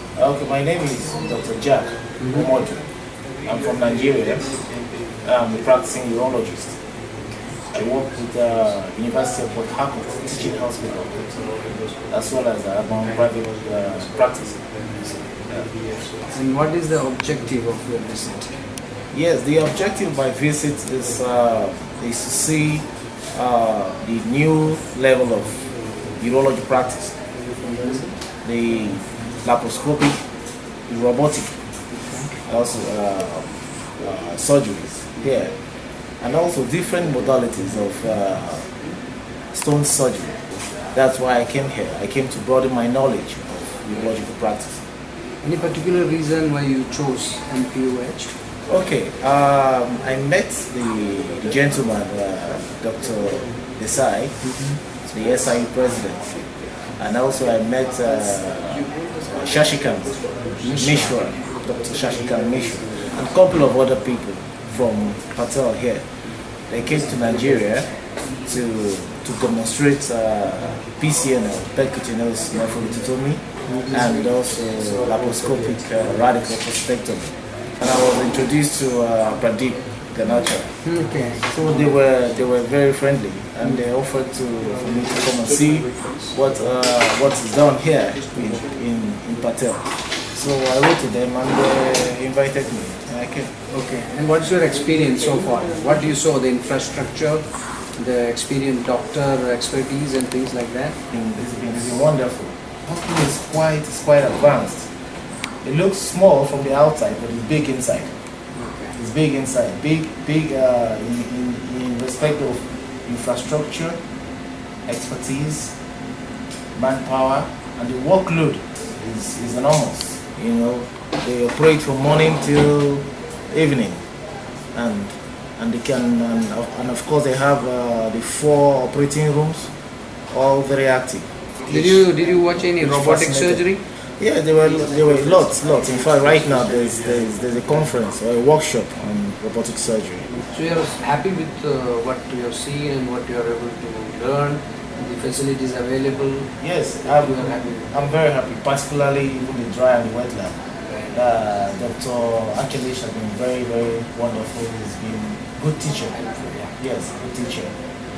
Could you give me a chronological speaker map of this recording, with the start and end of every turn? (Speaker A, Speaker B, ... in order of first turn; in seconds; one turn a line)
Speaker A: 0.1-2.9
Speaker A: 3.4-4.6
Speaker A: 5.2-6.7
Speaker A: 7.7-11.2
Speaker A: 12.1-14.6
Speaker A: 15.5-15.7
Speaker B: 16.3-18.6
Speaker A: 19.1-25.6
Speaker A: 26.2-27.2
Speaker B: 27.7-28.1
Speaker A: 28.4-30.3
Speaker A: 30.9-31.6
Speaker B: 31.9-32.4
Speaker A: 32.5-35.6
Speaker A: 36.2-38.7
Speaker A: 39.5-44.8
Speaker B: 45.4-48.3
Speaker A: 48.7-54.4
Speaker B: 54.5-54.8
Speaker A: 55.1-66.1
Speaker B: 60.6-61.1
Speaker A: 66.7-80.7
Speaker B: 80.8-81.5
Speaker A: 81.5-93.5
Speaker B: 93.7-101.0
Speaker A: 101.1-104.9
Speaker A: 105.6-108.1
Speaker B: 108.5-108.9
Speaker A: 109.0-114.0
Speaker A: 114.9-115.7
Speaker A: 116.8-124.0
Speaker A: 124.7-129.7
Speaker A: 130.3-132.1
Speaker B: 131.7-133.8
Speaker A: 132.8-140.3
Speaker B: 140.5-146.5
Speaker A: 146.6-150.6
Speaker B: 147.1-147.9
Speaker A: 151.1-156.2
Speaker B: 156.1-156.7
Speaker A: 156.8-157.7